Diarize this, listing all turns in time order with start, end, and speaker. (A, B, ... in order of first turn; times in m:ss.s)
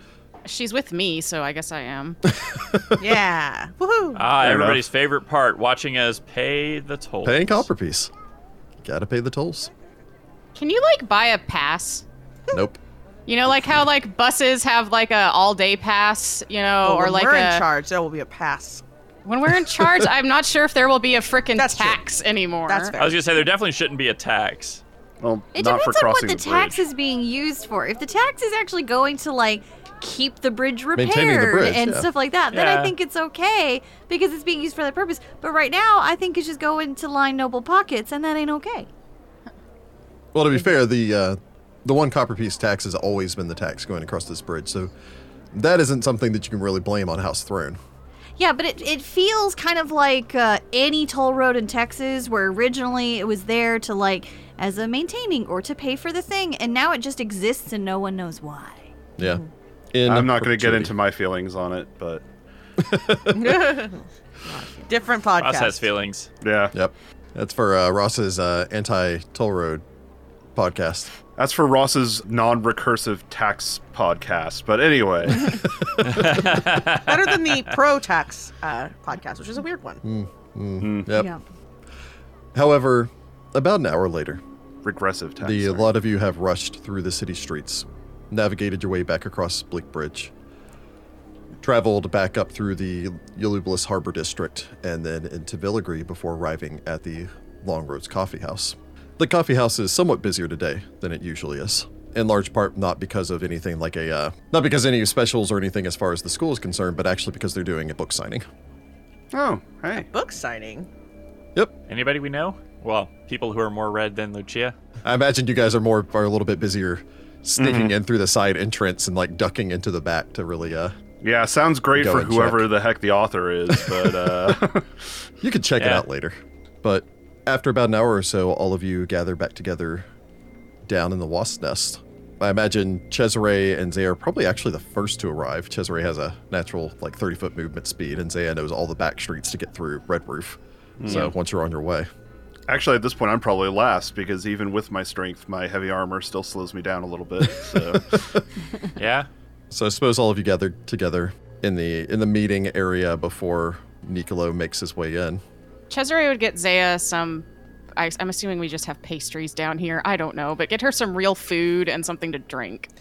0:00.4-0:02.2 A
0:02.3-0:03.2 B
0:03.0-0:04.2 C
0:04.2-0:07.7 D
0:04.4-0:04.8 E
0:07.2-0:08.1 B
0:08.8-0:09.7 B
0:10.6-0:12.1 A
0:12.5-0:12.8 B
0:13.3-0:17.6 A
0:16.8-0:18.8 C
0:19.2-0:23.0 A
0:19.8-0:20.1 B
0:21.6-0:22.0 C
0:22.7-0:23.5 C
0:23.0-0:24.8 D
0:25.2-0:26.8 E
0:25.5-0:38.9 F
0:31.0-0:32.1 B
0:32.5-0:32.9 D
0:40.3-0:44.9 B
0:45.5-0:47.8 B
0:48.4-0:58.9 F
0:59.2-1:00.9 B
0:59.2-0:59.5 C
1:00.1-1:02.2 E
1:02.8-1:03.8 B
1:03.3-1:04.0 C
1:04.5-1:04.9 F
1:04.9-1:05.9 C
1:05.4-1:06.3 D
1:06.4-1:06.8 E
1:06.7-1:09.8 B
1:10.6-1:11.1 B
1:11.4-1:15.7 E
1:15.7-1:16.4 B
1:16.0-1:17.4 D
1:16.3-1:20.0 C
1:20.0-1:21.3 B
1:20.8-1:21.1 E
1:21.1-1:21.4 F
1:22.6-1:24.4 B
1:24.8-1:25.9 E
1:25.4-1:30.3 B
1:31.6-1:48.4 B
1:49.3-1:50.1 E
1:49.9-1:50.9 C
1:51.9-1:54.8 D
1:55.0-2:01.0 B
1:57.6-1:57.9 E
2:01.2-2:05.1 E
2:02.0-2:02.7 B
2:03.7-2:04.6 B
2:05.4-2:10.1 B
2:05.8-2:06.0 D
2:10.9-2:22.1 B
2:21.0-2:21.3 E
2:22.7-2:28.2 E
2:27.6-2:28.4 B
2:29.0-2:29.3 D
2:29.7-2:35.4 B
2:35.9-2:42.9 A